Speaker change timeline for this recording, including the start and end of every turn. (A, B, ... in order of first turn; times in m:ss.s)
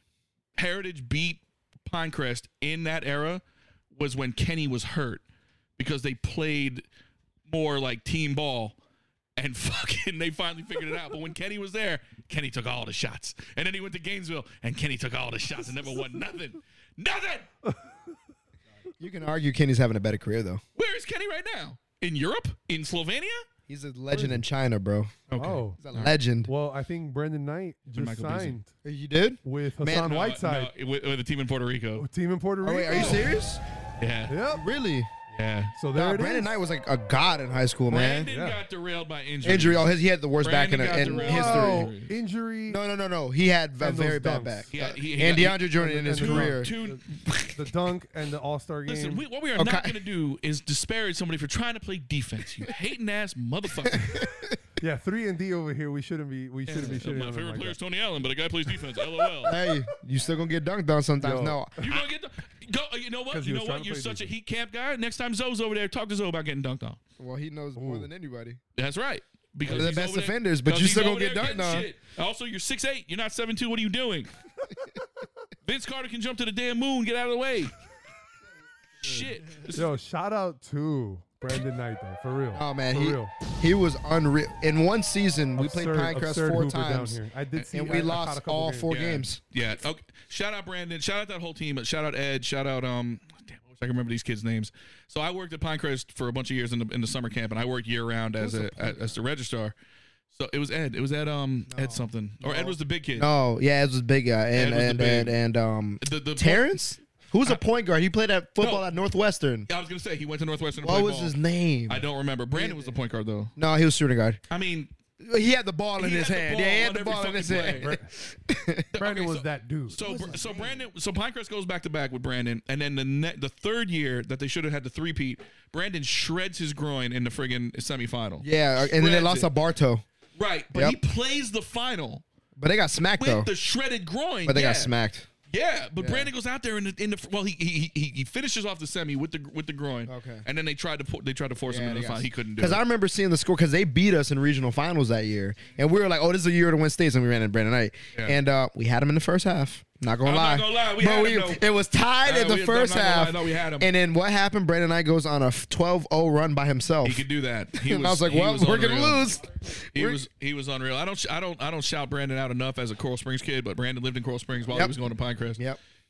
0:00.6-0:05.2 A
0:05.8-0:06.8 A
0:07.5-0:08.8 A
0:09.4-0:17.5 A
0:17.6-0:18.0 B
0:19.0-0:20.6 C
0:20.8-0:23.4 A
0:23.7-0:25.2 C
0:24.1-0:24.4 B
0:25.3-0:26.2 A
0:25.4-0:25.8 B
0:25.8-0:26.5 C
0:26.4-0:28.7 B
0:27.9-0:28.6 A
0:28.8-0:30.1 C
0:29.4-0:30.7 B
0:29.9-0:32.1 A
0:32.0-0:33.3 B
0:32.6-0:33.6 C
0:32.9-0:33.2 A
0:34.0-0:34.4 A
0:34.3-0:34.7 B
0:34.5-0:35.1 C
0:35.3-0:35.7 A
0:35.7-0:36.6 B
0:35.9-0:38.3 C
0:37.9-0:39.9 A
0:38.2-0:38.6 B
0:39.4-0:41.9 C
0:40.4-0:42.1 A
0:41.0-0:42.8 B
0:42.7-0:46.7 C
0:43.8-0:44.7 B
0:44.7-0:45.6 A
0:45.8-0:47.0 B
0:46.2-0:47.0 A
0:47.2-0:47.6 C
0:47.6-0:49.2 B
0:48.9-0:54.2 A
0:49.6-0:50.0 C
0:53.9-0:54.6 C
0:54.8-0:57.8 B
0:56.7-0:59.6 A
0:59.4-1:01.8 C
1:01.2-1:02.0 B
1:01.8-1:07.0 A
1:03.3-1:04.3 B
1:07.2-1:08.6 C
1:07.8-1:08.1 B
1:08.8-1:14.3 A
1:09.6-1:10.0 B
1:09.7-1:11.9 C
1:15.6-1:17.7 A
1:19.0-1:19.9 A
1:19.7-1:23.3 B
1:22.5-1:29.4 C
1:25.6-1:28.9 B
1:28.9-1:39.7 A
1:38.4-1:39.2 C
1:40.3-1:43.3 A
1:41.7-1:49.7 C
1:44.5-1:45.3 A
1:46.0-1:46.8 A
1:48.6-1:48.9 A
1:49.7-1:51.4 A
1:50.8-1:53.0 C
1:51.9-1:53.5 A
1:53.6-1:54.4 C
1:54.5-1:54.9 A
1:55.2-1:58.9 C
1:56.0-1:57.9 A
1:57.7-1:58.1 B
1:58.9-2:09.5 A
1:59.0-2:00.0 B
2:00.0-2:00.9 C
2:08.4-2:10.0 C
2:10.4-2:12.2 A
2:10.7-2:11.0 C
2:12.6-2:13.5 C
2:13.2-2:14.9 A
2:14.4-2:15.3 C
2:15.5-2:22.8 A
2:16.0-2:16.3 C
2:20.1-2:20.4 C
2:21.6-2:40.2 C
2:30.2-2:31.6 A
2:32.2-2:33.9 A
2:37.0-2:39.4 A
2:40.0-2:45.6 A
2:44.7-2:45.0 C